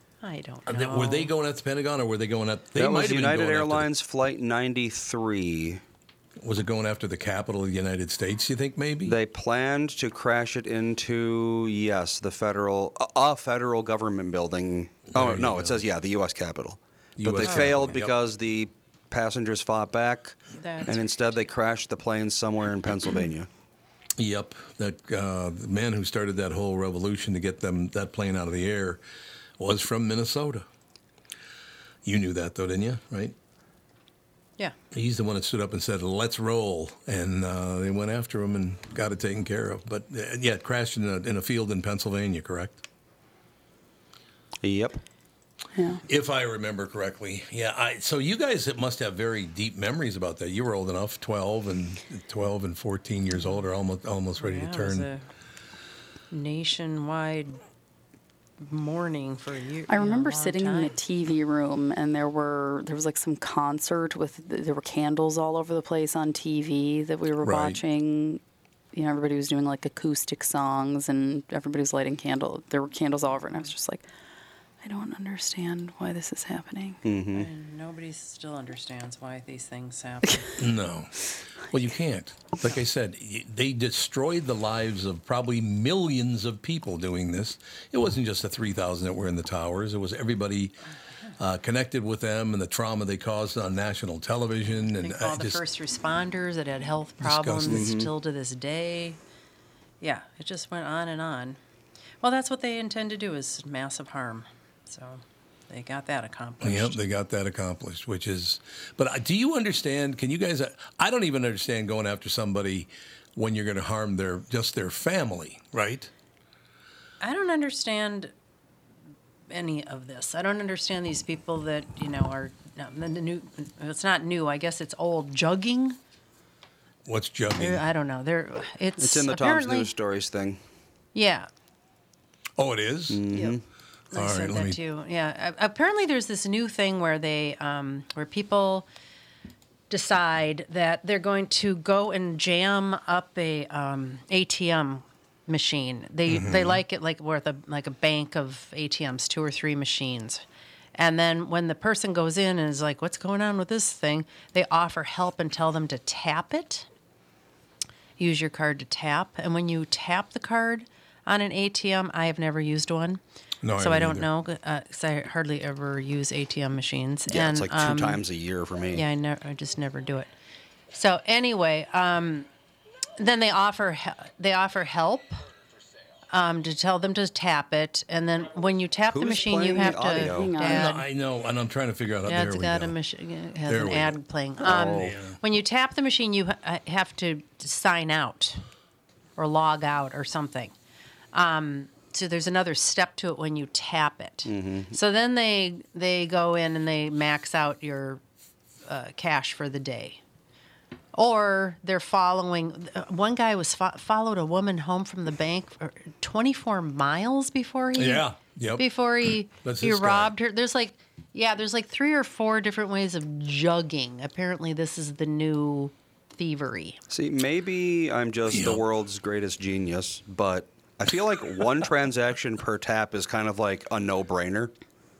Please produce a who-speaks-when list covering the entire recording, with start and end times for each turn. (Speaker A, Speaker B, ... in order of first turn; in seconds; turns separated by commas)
Speaker A: 0.2-1.3, Speaker B: 0.7-3.9, Speaker C: 2.8-5.8, Speaker B: 6.4-9.2, Speaker C: 9.1-23.5, Speaker B: 15.1-15.8, Speaker B: 17.2-18.1, Speaker A: 17.4-17.8, Speaker A: 20.6-21.3, Speaker B: 24.2-29.0, Speaker B: 29.6-30.7, Speaker B: 32.0-33.4, Speaker B: 34.9-42.8, Speaker C: 44.6-45.0, Speaker D: 45.8-46.0, Speaker B: 46.1-55.1, Speaker A: 54.4-55.3, Speaker A: 56.3-57.6, Speaker A: 58.6-61.0, Speaker D: 59.9-68.4, Speaker B: 67.4-67.8, Speaker D: 68.9-74.1, Speaker A: 73.3-73.7, Speaker D: 74.8-77.0, Speaker C: 77.0-77.5, Speaker A: 77.3-80.6, Speaker B: 80.6-90.8, Speaker B: 91.4-95.6, Speaker A: 94.8-99.2, Speaker B: 97.2-97.9, Speaker C: 97.7-98.1, Speaker A: 100.0-101.6, Speaker A: 102.2-107.0, Speaker B: 106.6-116.1, Speaker A: 117.2-118.3, Speaker A: 119.5-126.0, Speaker B: 127.1-127.8, Speaker A: 127.6-129.9, Speaker C: 129.0-130.6, Speaker A: 131.2-131.5, Speaker B: 132.6-133.2, Speaker C: 133.1-133.6, Speaker A: 134.1-138.9, Speaker B: 134.2-134.8, Speaker A: 139.9-150.4, Speaker B: 146.3-146.8, Speaker A: 150.9-156.9, Speaker A: 158.2-163.2, Speaker B: 163.6-164.3, Speaker A: 163.8-168.2, Speaker C: 167.3-169.1, Speaker A: 168.9-170.3, Speaker A: 170.9-172.5, Speaker A: 173.2-175.4, Speaker A: 176.3-181.1, Speaker C: 179.1-180.5, Speaker D: 179.7-180.9, Speaker B: 180.7-182.9, Speaker A: 182.3-188.6, Speaker B: 183.7-184.2, Speaker C: 184.6-185.2, Speaker B: 185.0-185.4, Speaker A: 189.4-190.7, Speaker A: 191.3-198.2, Speaker C: 194.5-195.0, Speaker A: 198.9-200.2, Speaker A: 201.2-217.0, Speaker B: 208.0-208.9, Speaker B: 209.6-210.3, Speaker C: 217.1-224.7, Speaker B: 218.5-218.8